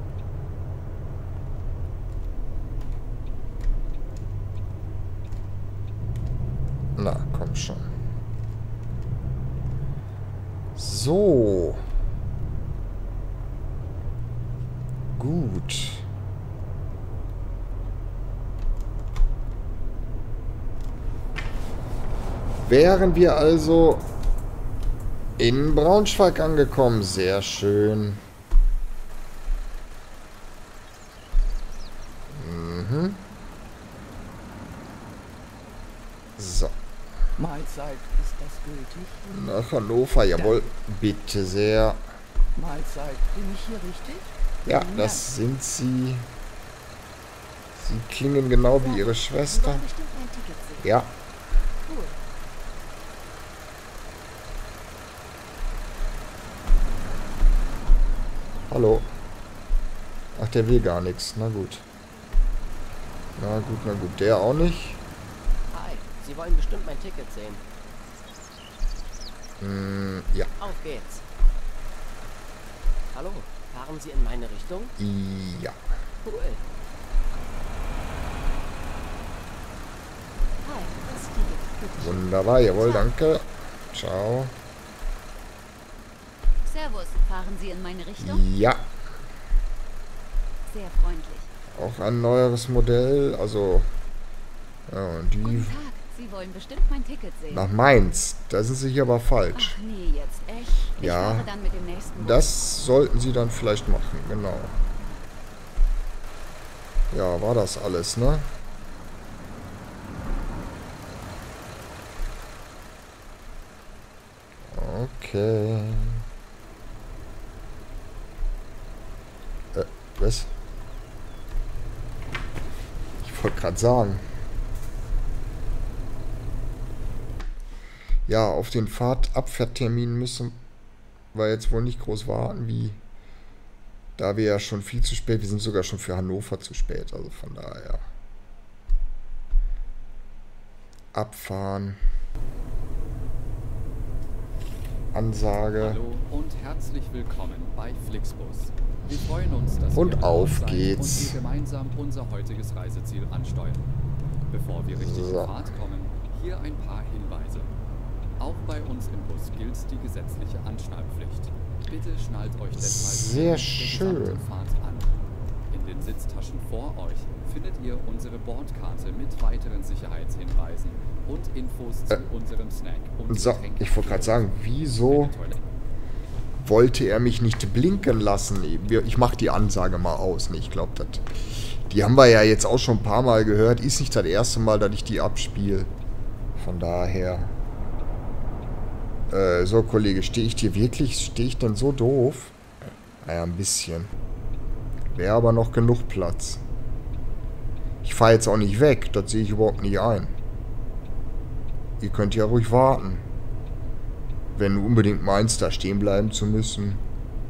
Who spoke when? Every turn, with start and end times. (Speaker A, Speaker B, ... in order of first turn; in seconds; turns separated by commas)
Speaker A: 7.0-7.8, Speaker A: 10.7-11.8, Speaker A: 15.1-16.1, Speaker A: 22.6-24.1, Speaker A: 25.4-28.2, Speaker A: 32.3-33.2, Speaker A: 36.4-36.7, Speaker B: 37.4-39.3, Speaker A: 39.3-42.0, Speaker B: 40.4-40.7, Speaker B: 42.5-45.3, Speaker A: 44.6-46.2, Speaker A: 47.7-49.9, Speaker C: 48.8-50.9, Speaker A: 50.8-51.1, Speaker C: 51.8-52.2, Speaker A: 58.7-59.1, Speaker A: 60.3-61.9, Speaker A: 63.4-65.0, Speaker D: 65.7-67.6, Speaker A: 69.6-70.5, Speaker D: 70.6-71.2, Speaker D: 73.1-74.9, Speaker A: 75.0-75.8, Speaker D: 76.2-76.6, Speaker C: 80.6-83.1, Speaker A: 82.0-84.5, Speaker C: 86.6-88.5, Speaker A: 88.2-88.9, Speaker C: 90.7-91.5, Speaker A: 91.7-93.9, Speaker A: 94.9-95.8, Speaker C: 95.4-97.7, Speaker A: 97.5-99.7, Speaker C: 99.5-102.6, Speaker A: 101.0-101.5, Speaker A: 102.1-104.8, Speaker A: 107.1-108.5, Speaker A: 114.7-116.2, Speaker A: 119.7-120.5, Speaker A: 123.2-124.2, Speaker A: 128.3-130.6, Speaker A: 131.3-133.0, Speaker A: 134.2-138.0, Speaker A: 141.1-142.0, Speaker A: 145.1-146.0, Speaker E: 145.8-153.9, Speaker A: 149.9-151.3, Speaker E: 154.5-157.7, Speaker A: 154.9-155.5, Speaker E: 158.4-175.6, Speaker A: 162.8-164.4, Speaker A: 173.3-175.3, Speaker A: 176.6-181.3, Speaker A: 181.9-185.9, Speaker A: 186.6-187.5, Speaker A: 189.3-192.5, Speaker A: 193.2-194.1, Speaker A: 195.1-196.6, Speaker A: 198.0-200.3, Speaker A: 202.0-203.2, Speaker A: 204.6-207.0